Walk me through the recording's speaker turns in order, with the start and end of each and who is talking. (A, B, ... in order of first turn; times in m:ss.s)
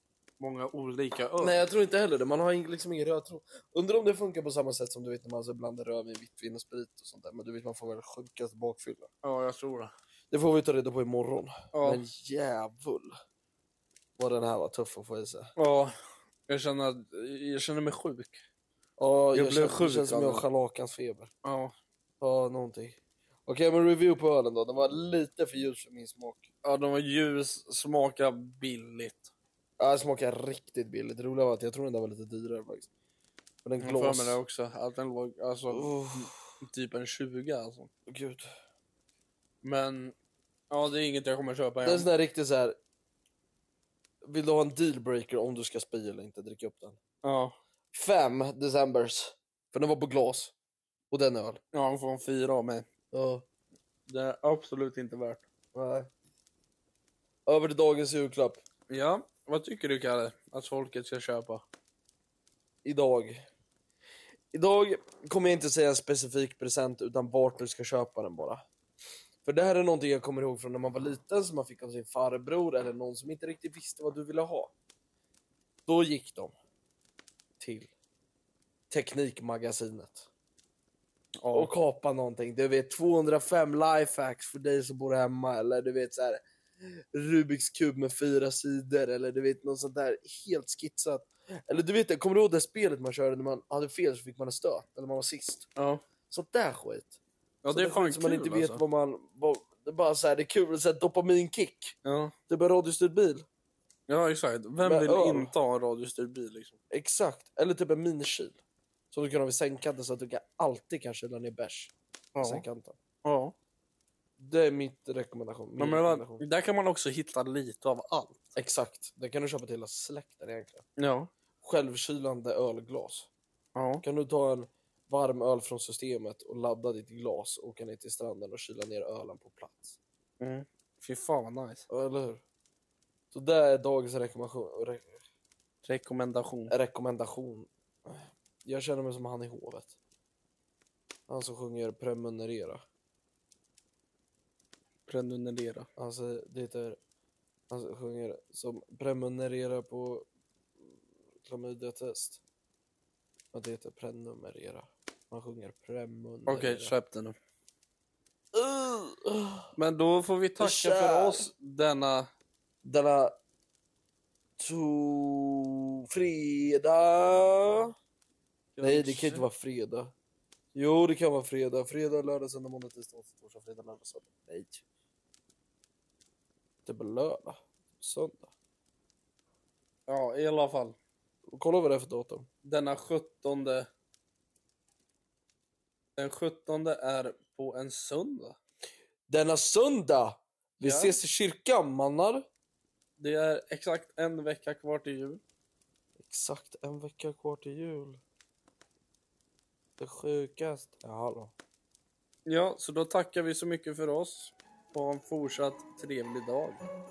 0:00.4-0:01.6 A
0:01.4-0:09.1 B
0:09.2-0:09.9 A
0:10.3-0:13.1 B
0:11.7-0:12.0 A
0:14.2-0:15.5 B
0:15.6-0:15.9 A
0:16.5-0:18.4 A
0:19.0-0:21.3 B
0:19.3-0:20.4 A
0:21.4-0:21.7 A
0:22.2-0:26.5 B
0:26.6-0:29.3 A
0:29.8-0:32.9 B
0:33.6-0:34.4 B
0:33.8-0:37.9 A
0:35.7-0:36.5 B
0:38.1-0:38.5 B
0:39.6-0:40.1 A
0:40.7-0:42.1 A
0:41.8-0:42.7 B
0:44.2-0:47.0 B
0:47.2-0:47.5 A
0:47.9-0:50.5 B
0:51.1-0:51.6 B
0:51.7-0:52.9 A
0:53.1-0:53.4 B
0:54.1-0:55.4 A
0:55.7-0:56.1 B
0:57.4-0:58.6 B
0:58.9-1:01.6 A
1:02.8-1:03.4 B
1:04.5-1:08.6 B
1:09.4-1:14.7 B
1:15.9-1:16.5 B
1:17.6-1:17.9 B
1:18.9-1:20.3 B
1:21.4-1:21.7 A
1:21.5-1:35.6 B
1:35.8-1:36.0 A
1:36.3-1:37.2 B
1:37.6-1:38.8 A
1:37.7-1:42.0 B
1:42.0-1:42.3 A
1:42.5-1:43.4 B
1:44.1-1:46.8 A
1:44.8-1:45.5 B
1:46.9-1:48.6 B
1:49.1-1:53.0 B
1:52.3-1:52.6 A
1:53.2-1:53.5 A
1:54.4-1:56.4 B
1:55.8-1:58.5 A
1:58.6-2:00.8 B
2:01.0-2:01.3 A
2:01.6-2:03.3 B
2:03.8-2:04.0 A
2:04.0-2:10.0 B
2:10.4-2:11.8 A
2:11.9-2:12.4 B
2:13.3-2:15.2 B
2:15.8-2:16.7 A
2:16.7-2:20.0 B
2:21.3-2:22.8 B
2:25.1-2:25.9 A
2:26.0-2:27.0 B
2:27.7-2:30.3 B
2:30.8-2:32.4 B
2:33.5-2:36.9 B
2:36.5-2:37.4 A
2:38.5-2:39.7 B
2:39.8-2:42.3 A
2:40.6-2:41.5 B
2:42.8-2:43.4 B
2:44.6-2:47.9 B
2:48.8-2:49.5 A
2:48.8-2:50.1 B
2:50.7-2:54.8 B
2:56.8-2:58.5 B
3:00.1-3:00.9 A
3:01.5-3:02.5 B
3:02.6-3:03.9 A
3:06.2-3:08.6 A
3:09.3-3:12.4 B
3:10.8-3:11.2 A
3:13.2-3:15.4 A
3:16.2-3:18.2 B
3:20.0-3:21.5 B
3:22.4-3:26.8 A